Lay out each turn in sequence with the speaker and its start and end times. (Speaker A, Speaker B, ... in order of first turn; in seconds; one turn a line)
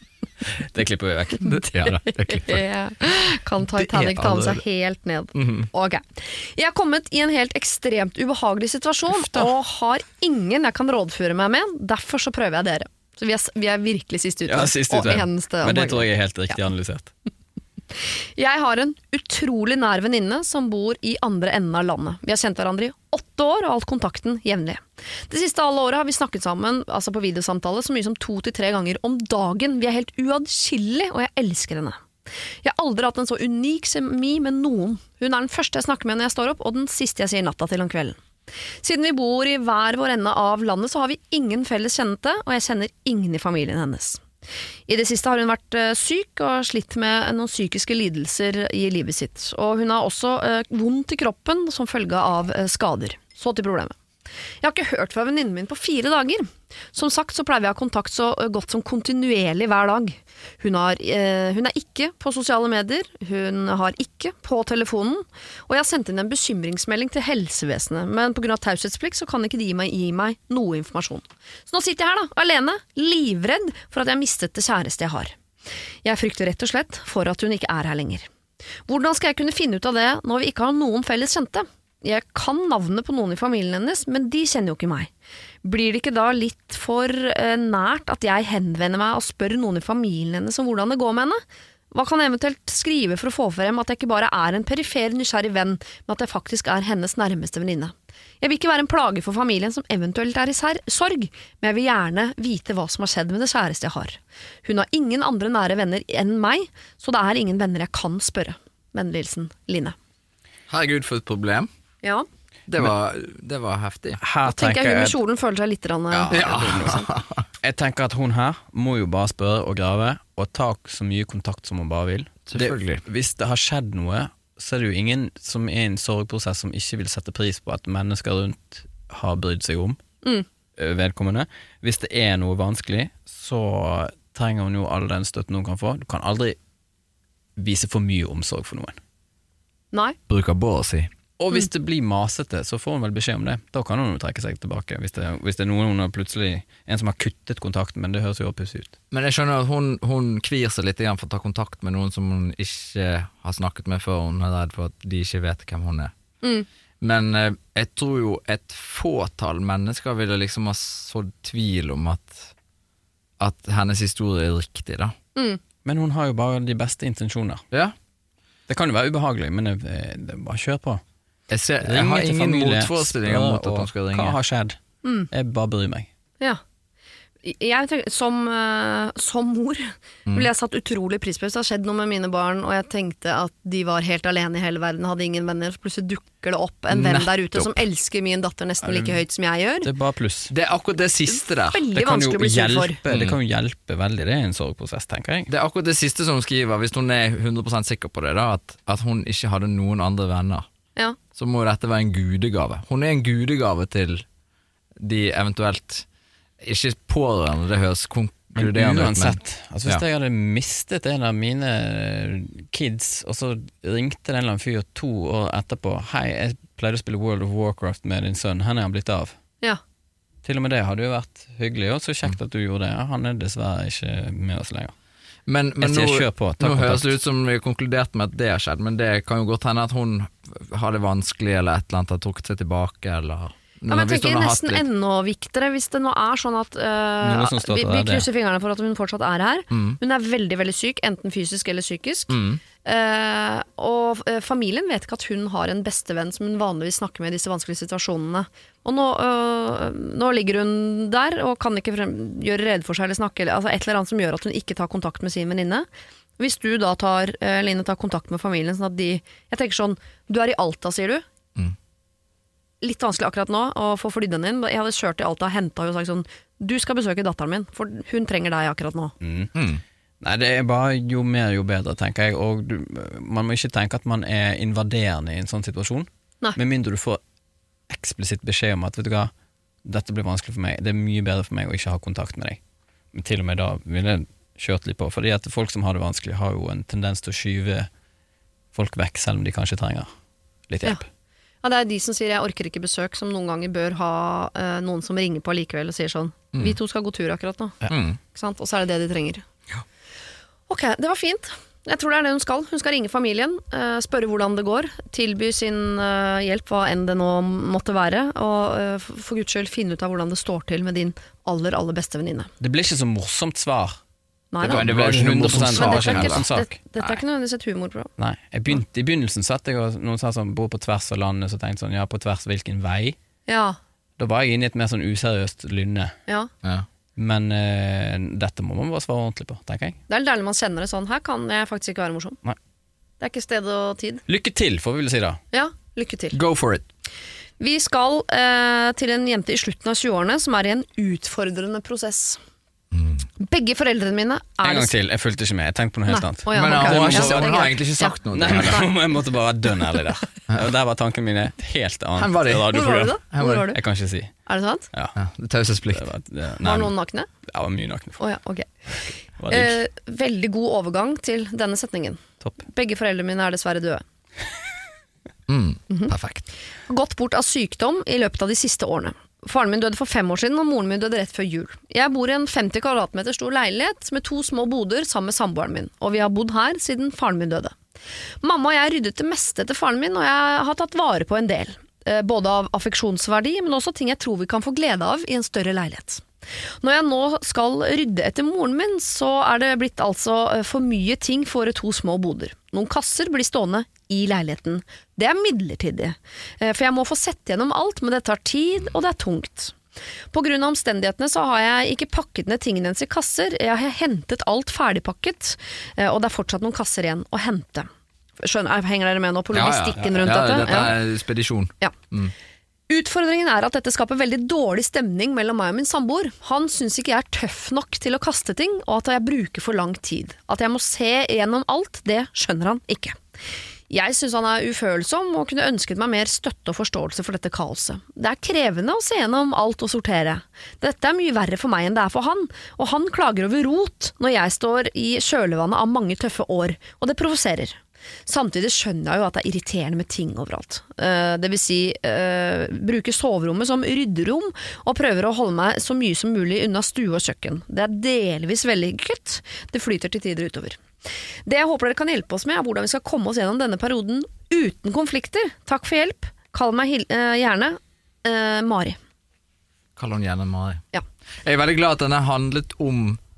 Speaker A: 0.5-1.7
Speaker B: 1.4-2.6
Speaker C: 2.0-16.1
Speaker B: 3.7-4.6
Speaker B: 5.3-5.7
Speaker A: 9.1-9.5
Speaker A: 14.5-17.1
Speaker C: 18.4-32.0
Speaker C: 32.6-38.2
Speaker C: 38.8-44.2
Speaker C: 44.9-53.9
Speaker C: 54.6-75.3
Speaker C: 76.0-78.2
Speaker C: 78.9-85.1
Speaker C: 85.6-91.4
Speaker C: 91.9-110.0
Speaker B: 110.7-111.7
Speaker B: 112.7-114.2
Speaker A: 114.2-115.2
Speaker C: 114.4-117.1
Speaker B: 116.1-117.4
Speaker A: 116.3-117.0
Speaker A: 117.6-130.0
Speaker B: 122.5-123.0
Speaker A: 130.8-136.6
Speaker A: 137.6-139.0
Speaker B: 140.3-141.1
Speaker A: 141.4-148.9
Speaker B: 149.1-156.1
Speaker B: 157.0-162.5
Speaker B: 163.4-165.1
Speaker A: 165.8-167.6
Speaker A: 168.7-171.0
Speaker B: 171.5-174.3
Speaker A: 171.8-174.8
Speaker C: 175.0-175.3
Speaker A: 175.3-176.1
Speaker C: 177.4-189.9
Speaker B: 186.9-187.8
Speaker A: 189.8-190.5
Speaker B: 190.5-191.8
Speaker C: 191.7-193.0
Speaker A: 191.9-195.5
Speaker B: 193.1-193.4
Speaker B: 195.5-200.7
Speaker B: 201.3-204.2
Speaker B: 205.0-206.1
Speaker B: 206.6-210.0
Speaker A: 208.6-219.3
Speaker A: 220.4-224.9
Speaker B: 225.5-234.8
Speaker A: 225.8-227.1
Speaker C: 233.9-255.9
Speaker A: 237.2-238.2
Speaker B: 239.7-240.0
Speaker B: 242.3-242.6
Speaker C: 256.4-261.2
Speaker C: 262.8-269.1
Speaker A: 269.2-269.5
Speaker B: 269.5-269.8
Speaker A: 270.2-277.2
Speaker A: 277.9-279.3
Speaker A: 279.8-282.6
Speaker A: 283.1-287.9
Speaker A: 288.7-290.1
Speaker A: 290.7-291.0
Speaker C: 291.6-297.8
Speaker B: 297.9-298.2
Speaker C: 298.3-299.4
Speaker C: 300.7-312.5
Speaker A: 312.6-314.0
Speaker C: 314.5-314.9
Speaker B: 314.6-316.4
Speaker A: 314.6-316.8
Speaker C: 315.5-318.1
Speaker A: 318.2-323.1
Speaker C: 323.5-323.8
Speaker A: 324.2-326.1
Speaker A: 327.1-330.0
Speaker C: 330.1-332.4
Speaker C: 333.2-334.2
Speaker A: 334.3-335.4
Speaker C: 335.5-336.4
Speaker B: 336.3-336.9
Speaker C: 337.6-342.4
Speaker B: 342.9-343.2
Speaker C: 343.4-344.9
Speaker A: 344.6-347.7
Speaker C: 346.1-348.9
Speaker B: 346.5-348.9
Speaker A: 348.3-354.3
Speaker B: 352.2-352.8
Speaker C: 352.6-353.8
Speaker B: 353.3-353.7
Speaker C: 354.4-354.9
Speaker B: 355.1-356.1
Speaker A: 355.9-356.9
Speaker C: 356.6-357.3
Speaker A: 357.4-358.2
Speaker C: 358.2-358.7
Speaker A: 359.4-359.8
Speaker C: 359.5-364.0
Speaker B: 365.5-366.4
Speaker C: 366.9-377.7
Speaker C: 378.4-386.2
Speaker C: 386.8-399.7
Speaker C: 400.3-407.9
Speaker C: 408.4-411.0
Speaker B: 409.5-412.3
Speaker C: 412.9-423.2
Speaker C: 423.9-450.8
Speaker C: 451.4-459.0
Speaker B: 459.9-460.8
Speaker B: 461.4-463.2